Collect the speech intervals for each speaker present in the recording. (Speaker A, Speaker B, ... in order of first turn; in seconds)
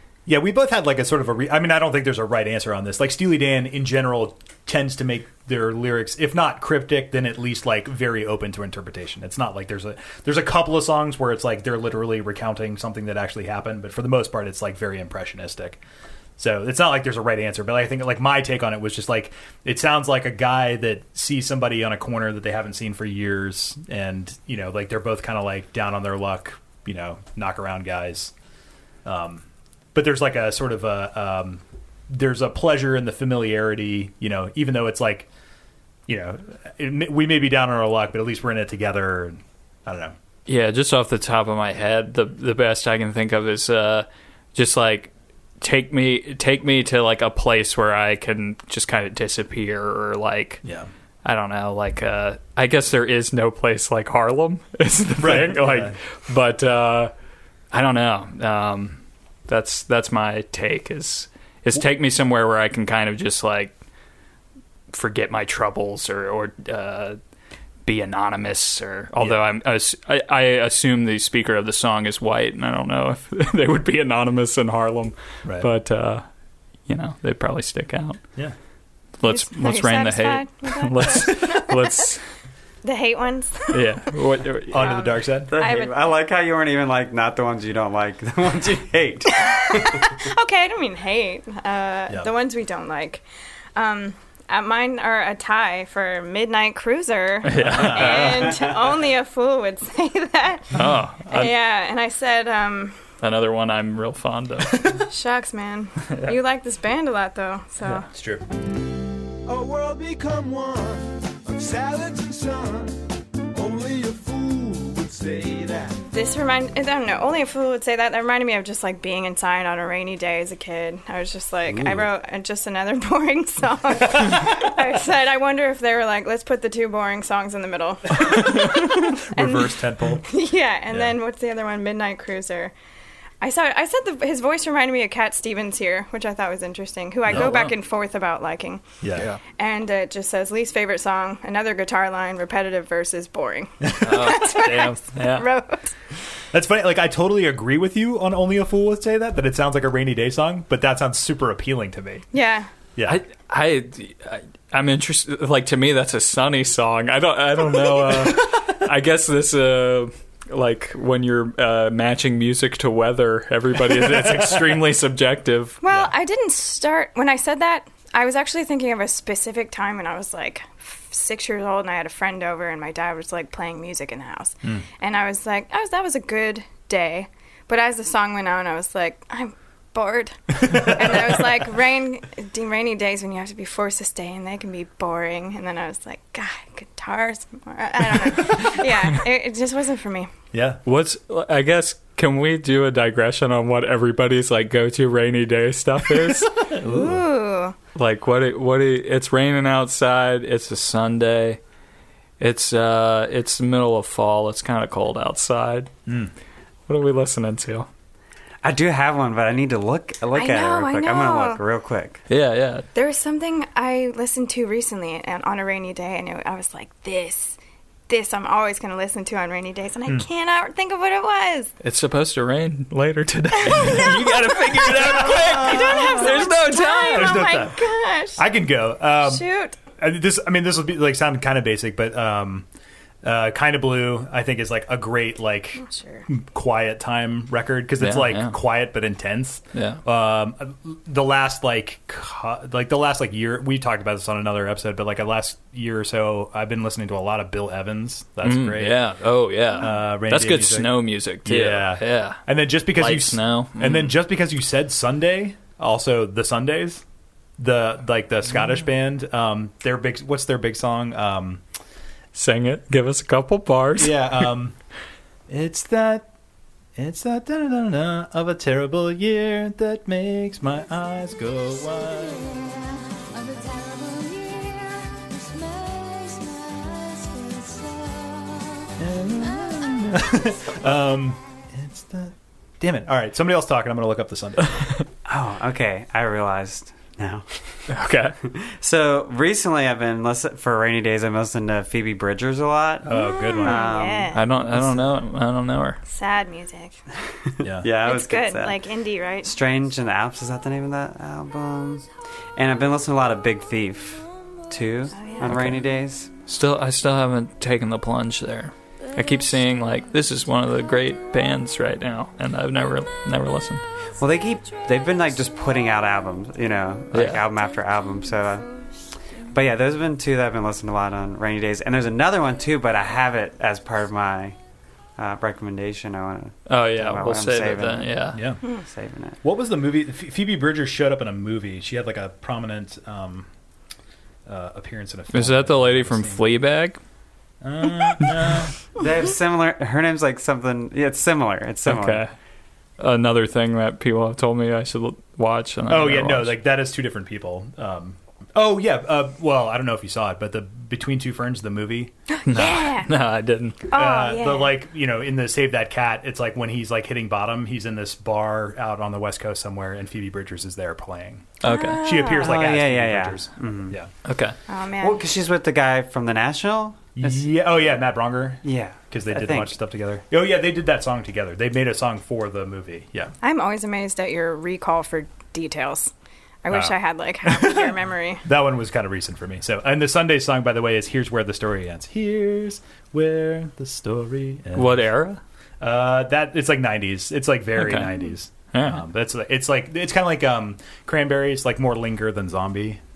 Speaker A: 0.3-15.8, 16.4-28.3, 29.1-29.4, 29.9-35.3, 36.1-40.1, 50.6-50.9, 55.2-56.0, 84.7-85.5, 97.5-98.3, 108.1-108.4, 121.7-122.1, 128.3-130.2, 139.0-139.3, 143.8-144.3, 146.5-152.3, 153.0-153.2, 158.0-158.6, 164.4-164.6, 180.6-181.3, 190.5-190.8, 196.7-197.2, 206.1-206.3, 224.8-226.4, 227.1-227.8, 228.3-232.7, 233.2-249.0, 249.8-250.9, 251.4-257.0, 257.6-261.6, 264.0-264.8, 265.5-266.3, 267.0-272.7, 279.0-284.9, 293.1-293.9, 297.6-297.9, 328.3-328.6, 329.4-333.5, 334.5-336.4, 337.6-338.7, 345.9-352.8, 353.9-364.1, 367.2-373.4, 376.7-385.0, 385.8-393.0
Speaker B: 40.5-50.6, 51.2-57.1, 57.7-63.7, 64.9-67.2, 67.9-76.2, 76.9-78.2, 79.2-82.2, 83.7-85.0, 97.4-98.7, 100.7-101.5, 103.2-105.0, 137.3-137.8, 144.0-145.5, 153.1-165.8, 190.8-196.7, 197.9-201.6, 202.4-205.9, 206.9-207.9, 212.3-212.9, 221.8-227.5, 238.0-238.5, 239.7-240.0, 248.4-252.4, 252.9-254.1, 262.4-264.5, 287.9-288.4, 294.3-296.0, 305.4-305.8, 306.5-313.8, 317.1-317.5, 326.7-328.4, 335.3-337.0, 341.9-342.3, 343.0-346.5, 352.5-353.8, 361.6-362.0, 364.2-364.6, 384.8-385.4, 387.8-388.2, 388.7-389.0
Speaker C: 79.3-81.7, 82.8-83.9, 84.8-86.0, 89.3-93.2, 93.8-103.0, 104.8-108.1, 116.1-132.7, 133.4-138.9, 139.5-145.9, 152.3-152.7, 165.8-190.3, 196.8-197.8, 210.3-211.6, 212.9-217.6, 218.1-221.7, 223.6-228.4, 229.2-229.8, 235.8-236.3, 293.1-294.9, 296.1-297.0, 298.0-299.5, 305.1-305.5, 352.3-353.1, 353.9-354.7, 361.6-362.5, 364.7-365.2, 373.4-376.1, 376.6-378.4
Speaker D: 85.5-90.1, 208.6-212.2, 285.2-287.9, 288.4-294.4, 297.3-298.9, 299.4-306.3, 314.2-318.7, 319.5-324.6, 325.2-329.4, 339.0-342.2, 362.2-364.0, 365.0-367.4, 368.6-369.7
Speaker E: 109.5-113.0, 113.5-116.0, 273.4-278.8